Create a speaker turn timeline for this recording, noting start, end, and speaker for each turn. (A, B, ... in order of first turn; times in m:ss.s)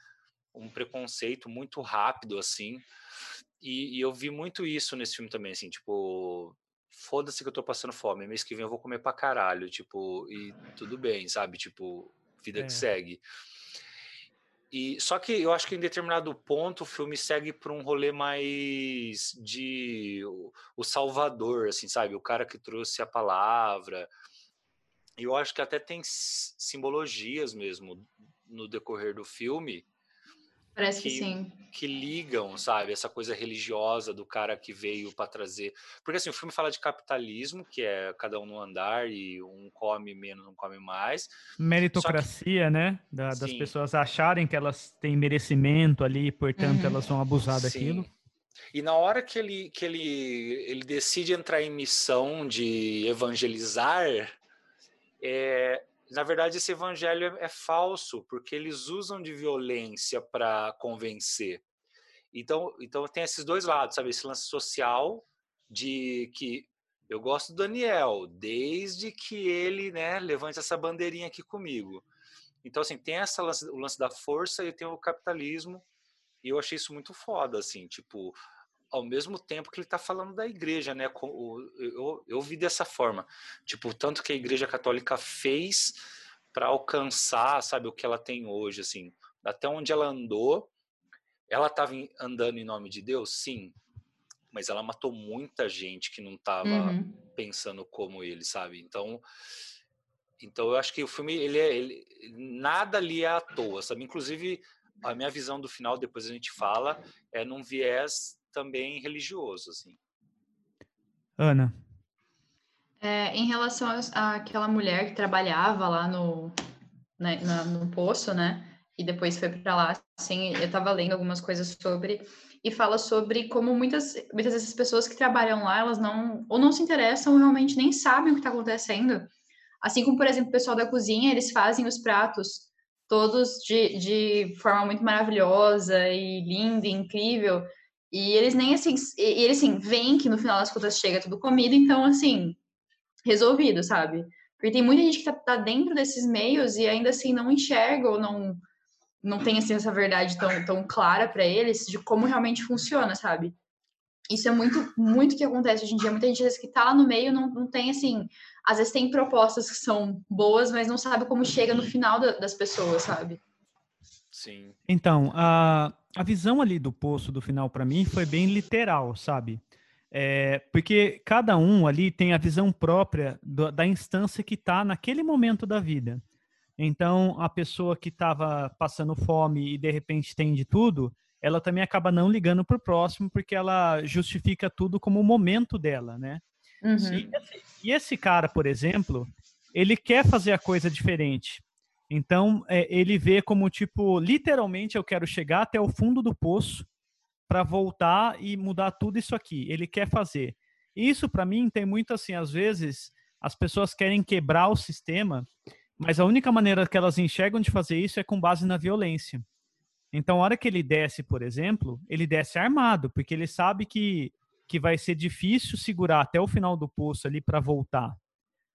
0:00.5-0:02.8 A
0:03.6-0:13.2 A
0:12.6-0:12.8 B
0:14.7-0:24.1 A
0:25.2-0:29.8 A
0:30.8-0:31.6 C
0:31.0-0:41.3 A
0:41.6-0:48.1 B
0:41.9-0:42.3 A
0:43.3-0:43.7 A
0:46.6-0:47.0 C
0:47.4-0:48.1 A
0:48.7-0:54.3 A
0:55.2-1:01.6 A
1:02.3-1:12.0 A
1:12.6-1:15.8 A
1:16.4-1:18.4 A
1:18.9-1:26.0 A
1:26.5-1:30.7 A
1:31.5-1:33.8 A
1:34.5-1:39.2 A
1:36.6-1:37.2 C
1:40.4-1:50.0 A
1:51.4-1:51.7 B
1:53.0-1:56.6 C
1:57.2-2:09.3 C
2:09.8-2:22.6 C
2:23.2-2:28.6 C
2:29.2-2:33.5 C
2:34.3-2:43.4 C
2:44.3-2:44.8 A
2:44.9-2:49.6 B
2:50.1-2:56.2 B
2:56.8-3:06.4 B
3:06.8-3:07.3 C
3:07.0-3:16.9 B
3:17.5-3:29.4 B
3:30.1-3:38.2 B